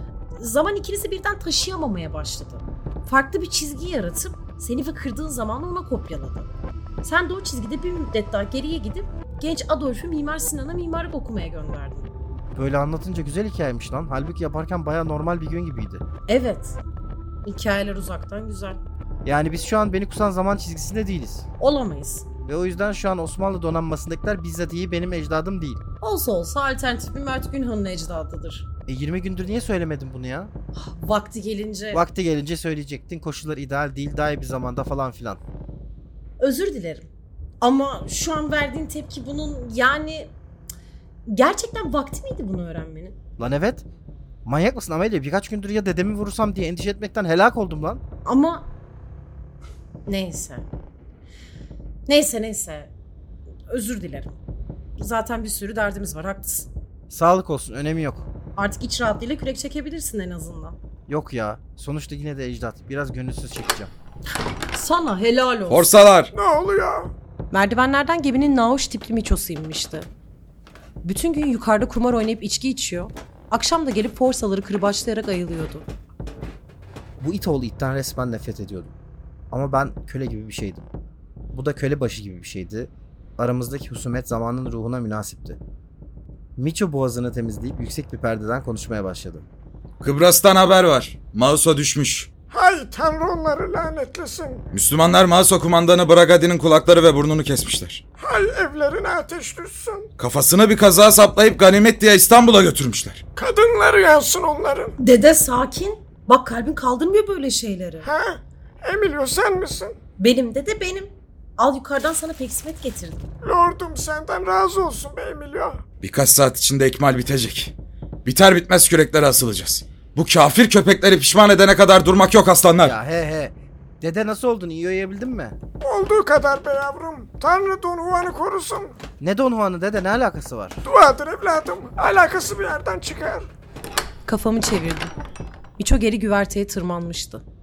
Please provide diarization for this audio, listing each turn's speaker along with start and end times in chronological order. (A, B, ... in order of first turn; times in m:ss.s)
0:00.4-0:06.5 A
0:07.0-0:12.1 A
0:12.5-0:16.0 B
0:16.3-0:16.8 A
0:17.4-0:18.8 A
0:19.2-0:21.4 B
0:21.6-0:22.3 A
0:22.4-0:25.8 B
0:26.0-0:28.7 A
0:28.9-0:30.5 B
0:30.7-0:32.0 A
0:31.9-0:35.4 B
0:36.4-0:37.1 A
0:37.6-0:40.3 A
0:41.3-0:43.2 A
0:43.4-0:43.8 B
0:44.4-0:48.0 B
0:48.2-0:48.7 A
0:50.0-0:50.6 A
0:52.1-0:52.9 A
0:53.7-0:54.4 A
0:55.0-0:56.7 A
0:57.1-0:58.3 B
0:58.6-1:00.8 A
1:01.1-1:03.9 B
1:04.7-1:05.9 A
1:05.7-1:06.3 C
1:06.3-1:07.1 D
1:07.5-1:10.1 A
1:11.0-1:15.9 A
1:17.2-1:18.9 B
1:19.5-1:20.9 B
1:21.5-1:25.6 B
1:26.6-1:29.4 B
1:30.0-1:32.3 C
1:32.5-1:34.6 D
1:34.7-1:38.0 C
1:38.2-1:40.1 D
1:40.2-1:43.2 C
1:43.4-1:45.0 D
1:45.0-1:48.1 A
1:48.0-1:50.0 D
1:50.2-1:53.2 A
1:53.4-1:55.8 D
1:56.0-1:57.7 C
1:58.2-2:03.0 C
2:02.8-2:05.6 B
2:05.8-2:09.0 D
2:09.2-2:10.8 B
2:10.8-2:13.5 D
2:14.2-2:15.1 A
2:15.8-2:17.4 A